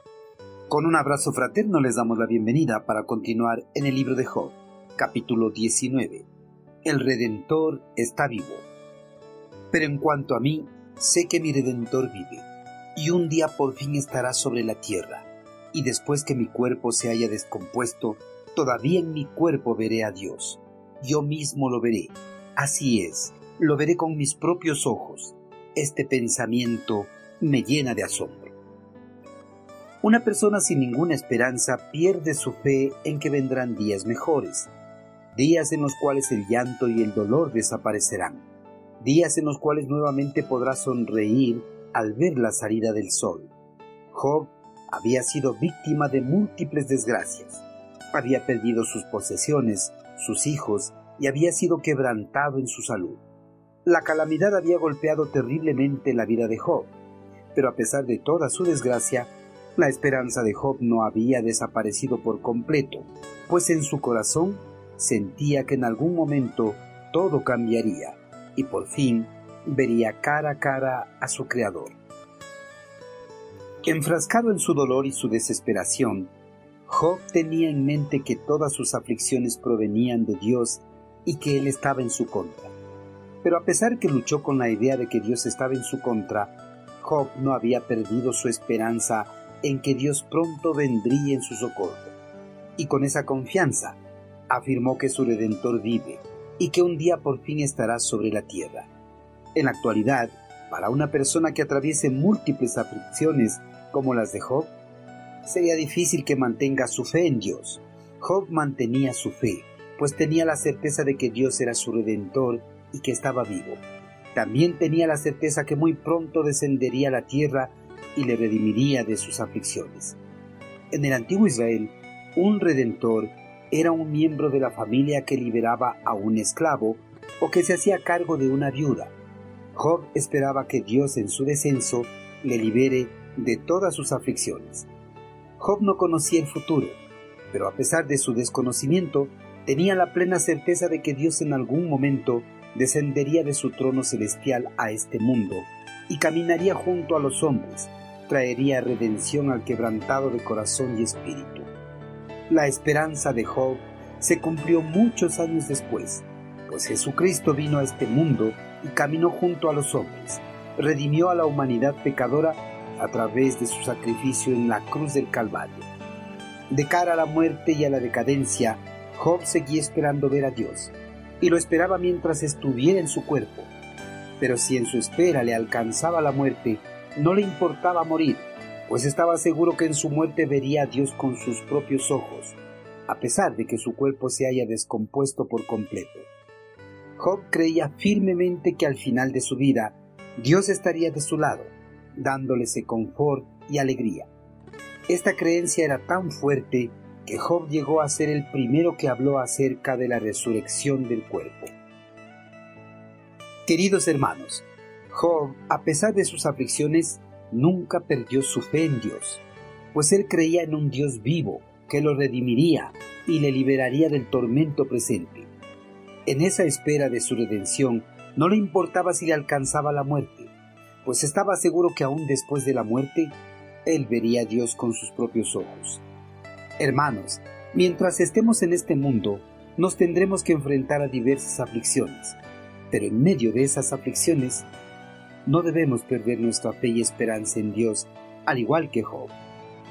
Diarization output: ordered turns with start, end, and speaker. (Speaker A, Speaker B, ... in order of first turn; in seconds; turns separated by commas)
Speaker A: 0.7-6.2, Speaker A: 6.8-8.7, Speaker A: 9.7-28.5, Speaker A: 30.0-34.7, Speaker A: 35.3-38.4, Speaker A: 39.0-43.5, Speaker A: 44.1-53.2, Speaker A: 53.8-56.9, Speaker A: 57.5-71.9, Speaker A: 73.8-76.3, Speaker A: 76.9-82.7, Speaker A: 83.4-92.1, Speaker A: 92.8-98.9, Speaker A: 99.5-104.7, Speaker A: 105.5-113.8, Speaker A: 114.3-120.2, Speaker A: 120.9-129.1, Speaker A: 129.7-134.9, Speaker A: 135.6-137.0, Speaker A: 137.5-151.7, Speaker A: 152.5-165.9, Speaker A: 166.7-173.7, Speaker A: 174.4-182.6, Speaker A: 183.1-186.3, Speaker A: 187.2-194.3, Speaker A: 195.1-201.7, Speaker A: 203.7-215.5, Speaker A: 216.2-220.5, Speaker A: 221.0-226.0, Speaker A: 226.8-232.4, Speaker A: 232.9-234.7, Speaker A: 235.4-239.3